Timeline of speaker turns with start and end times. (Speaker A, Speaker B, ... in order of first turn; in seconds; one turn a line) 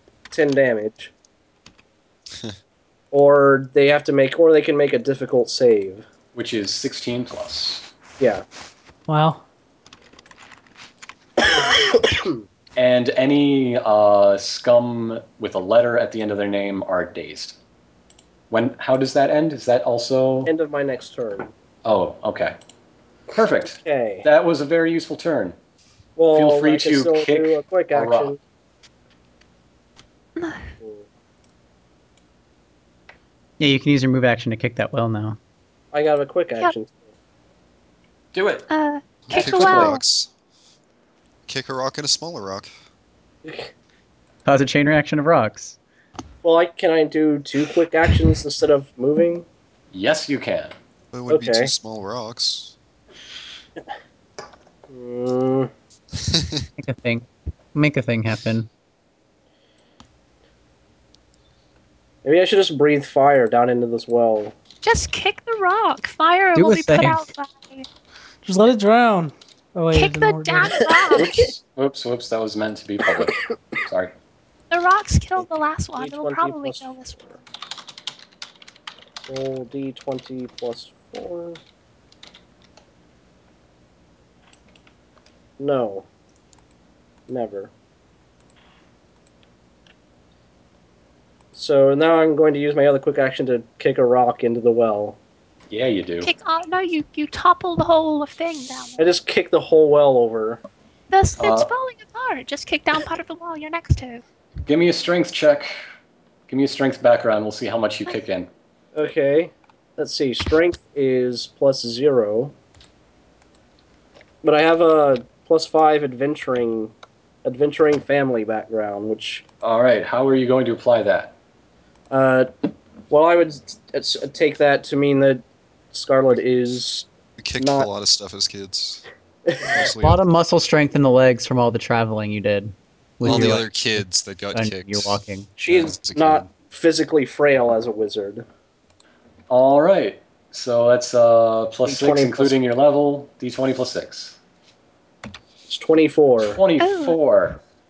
Speaker A: 0.3-1.1
Speaker A: 3.1-6.0
Speaker B: 6.3-7.9
Speaker C: 9.1-9.4
Speaker A: 11.9-12.3
Speaker B: 12.8-17.6
Speaker B: 18.5-20.5
Speaker A: 20.4-21.5
Speaker B: 21.8-22.6
Speaker B: 23.3-25.6
Speaker A: 23.7-24.3
Speaker A: 26.1-28.4
Speaker B: 26.3-28.3
Speaker D: 30.4-30.7
Speaker A: 30.8-31.1
Speaker E: 33.6-35.4
Speaker A: 35.9-37.1
Speaker B: 38.3-38.6
Speaker D: 38.7-40.0
Speaker F: 39.3-40.3
Speaker A: 39.3-39.7
Speaker B: 39.5-39.9
Speaker F: 41.5-42.7
Speaker A: 43.4-43.7
Speaker E: 44.4-45.8
Speaker A: 46.4-49.5
Speaker B: 49.9-50.7
Speaker F: 51.1-52.7
Speaker A: 51.3-51.7
Speaker A: 54.9-55.7
Speaker F: 56.3-56.6
Speaker E: 56.8-58.7
Speaker A: 62.2-64.5
Speaker D: 64.8-67.8
Speaker E: 66.5-67.2
Speaker C: 68.4-70.9
Speaker D: 69.9-71.4
Speaker A: 70.9-71.3
Speaker B: 71.1-73.3
Speaker B: 73.9-74.1
Speaker D: 74.7-77.2
Speaker A: 75.4-77.4
Speaker A: 79.3-81.6
Speaker A: 85.6-86.1
Speaker A: 87.3-87.7
Speaker A: 91.5-95.2
Speaker B: 95.7-96.3
Speaker D: 96.2-99.2
Speaker A: 99.0-100.6
Speaker D: 101.1-104.2
Speaker B: 101.4-101.7
Speaker B: 104.7-105.8
Speaker B: 106.5-108.5
Speaker A: 108.9-112.5
Speaker A: 114.4-116.9
Speaker A: 117.4-119.4
Speaker B: 119.6-121.3
Speaker A: 122.1-122.5
Speaker A: 123.1-127.9
Speaker F: 127.4-129.0
Speaker A: 129.5-129.8
Speaker F: 129.7-130.2
Speaker E: 130.0-135.5
Speaker F: 133.2-136.5
Speaker B: 133.3-133.5
Speaker A: 135.6-138.4
Speaker B: 139.5-144.4
Speaker A: 141.8-142.6
Speaker A: 145.7-146.6
Speaker B: 146.4-147.6
Speaker D: 146.8-147.2